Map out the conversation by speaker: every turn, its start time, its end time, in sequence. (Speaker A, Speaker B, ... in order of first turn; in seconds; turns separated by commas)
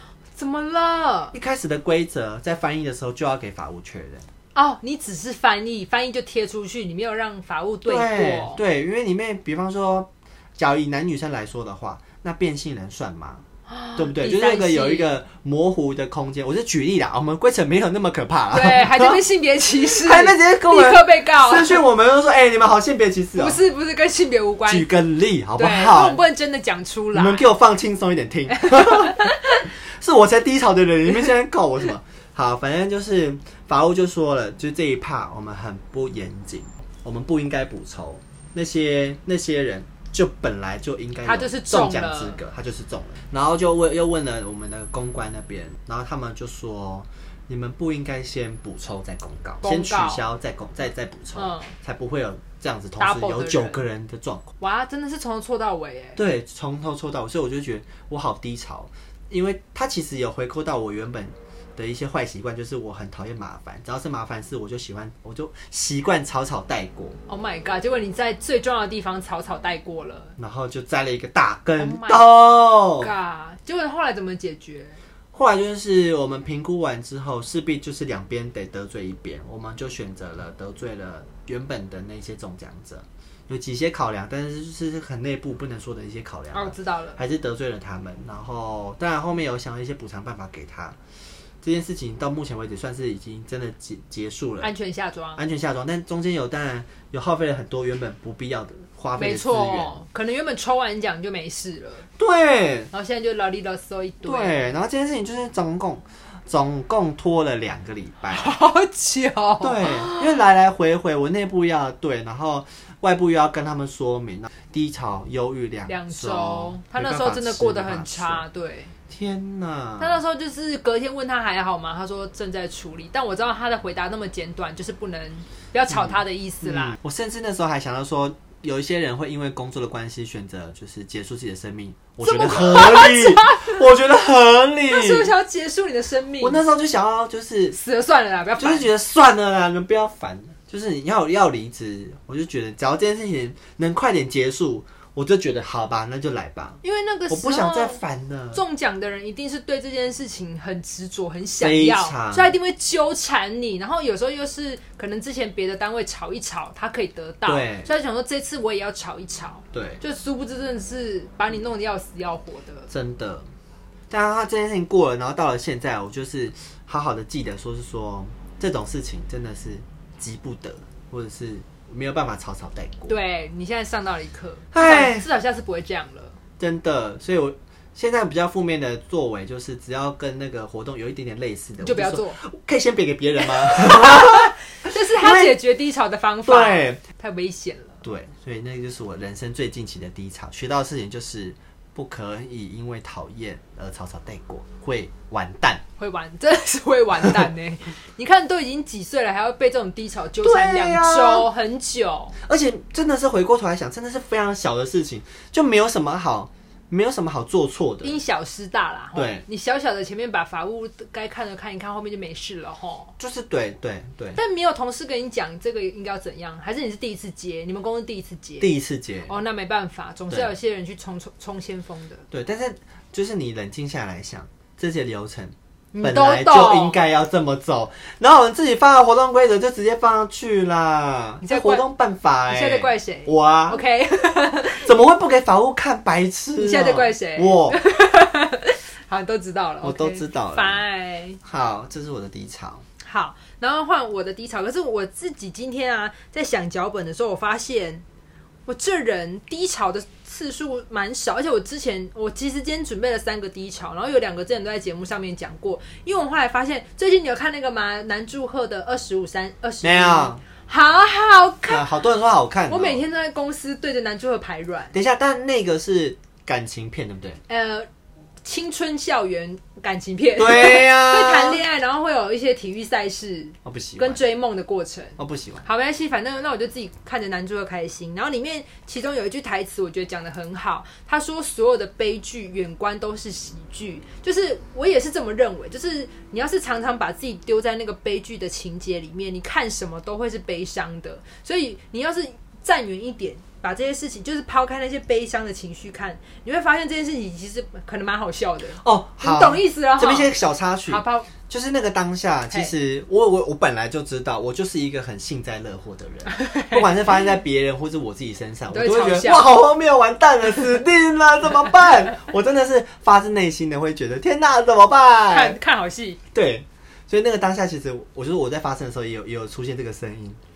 Speaker A: 0.4-1.4, Speaker B: 1.3-4.3, Speaker A: 4.5-8.6, Speaker B: 7.9-13.4, Speaker A: 13.7-15.1, Speaker B: 14.0-19.2, Speaker A: 18.5-21.9, Speaker B: 19.8-23.6, Speaker A: 23.4-24.9, Speaker B: 24.7-26.2, Speaker A: 25.6-27.5, Speaker B: 27.1-54.5, Speaker A: 28.5-29.7, Speaker A: 41.2-42.4, Speaker A: 49.6-50.2, Speaker A: 51.4-51.7, Speaker A: 53.0-53.8, Speaker A: 54.6-56.2, Speaker B: 56.2-67.2, Speaker A: 67.3-70.3, Speaker B: 70.4-73.1, Speaker A: 71.8-72.3, Speaker A: 73.0-75.0, Speaker B: 75.3-91.0, Speaker A: 86.5-87.2, Speaker B: 91.6-94.7, Speaker A: 94.6-95.4, Speaker B: 95.4-100.0, Speaker A: 99.2-102.1, Speaker B: 102.2-102.9, Speaker A: 102.9-104.7, Speaker B: 104.2-108.6, Speaker A: 108.3-110.4, Speaker B: 109.6-118.5, Speaker A: 115.9-118.9, Speaker B: 119.1-120.2, Speaker A: 120.0-127.0, Speaker B: 125.9-135.3, Speaker A: 132.2-133.8, Speaker A: 134.9-136.6, Speaker B: 136.4-137.8, Speaker A: 137.7-138.9, Speaker B: 138.6-148.6, Speaker A: 146.8-148.0, Speaker A: 148.5-162.9, Speaker B: 151.6-152.5, Speaker B: 157.4-157.9, Speaker B: 159.7-160.0, Speaker B: 162.9-163.5, Speaker B: 164.1-173.1, Speaker A: 173.1-176.4, Speaker B: 174.7-175.3, Speaker B: 176.6-185.6, Speaker A: 181.8-182.4, Speaker A: 183.6-188.0, Speaker B: 186.5-187.0, Speaker B: 188.0-195.8, Speaker A: 196.0-202.4, Speaker B: 200.4-201.5, Speaker B: 202.4-208.2, Speaker A: 208.0-213.1, Speaker B: 209.2-209.4, Speaker B: 213.2-214.4, Speaker A: 214.4-218.7, Speaker B: 218.6-219.3, Speaker A: 219.3-222.2, Speaker B: 222.3-233.8, Speaker A: 225.9-227.0, Speaker A: 231.4-231.8, Speaker A: 232.5-234.9, Speaker B: 234.8-237.8, Speaker A: 236.6-241.4, Speaker B: 239.8-240.8, Speaker B: 241.4-242.8, Speaker A: 243.0-248.0, Speaker A: 248.7-261.9, Speaker B: 259.8-260.4, Speaker B: 261.7-263.0, Speaker A: 262.7-264.9, Speaker B: 264.9-267.4, Speaker A: 267.5-267.9, Speaker A: 268.4-300.4, Speaker B: 270.4-271.6, Speaker B: 273.6-274.2, Speaker B: 275.2-275.6, Speaker B: 298.8-315.6, Speaker A: 300.9-301.3, Speaker A: 306.3-306.9, Speaker A: 308.7-309.6, Speaker A: 315.3-316.2, Speaker B: 316.3-320.4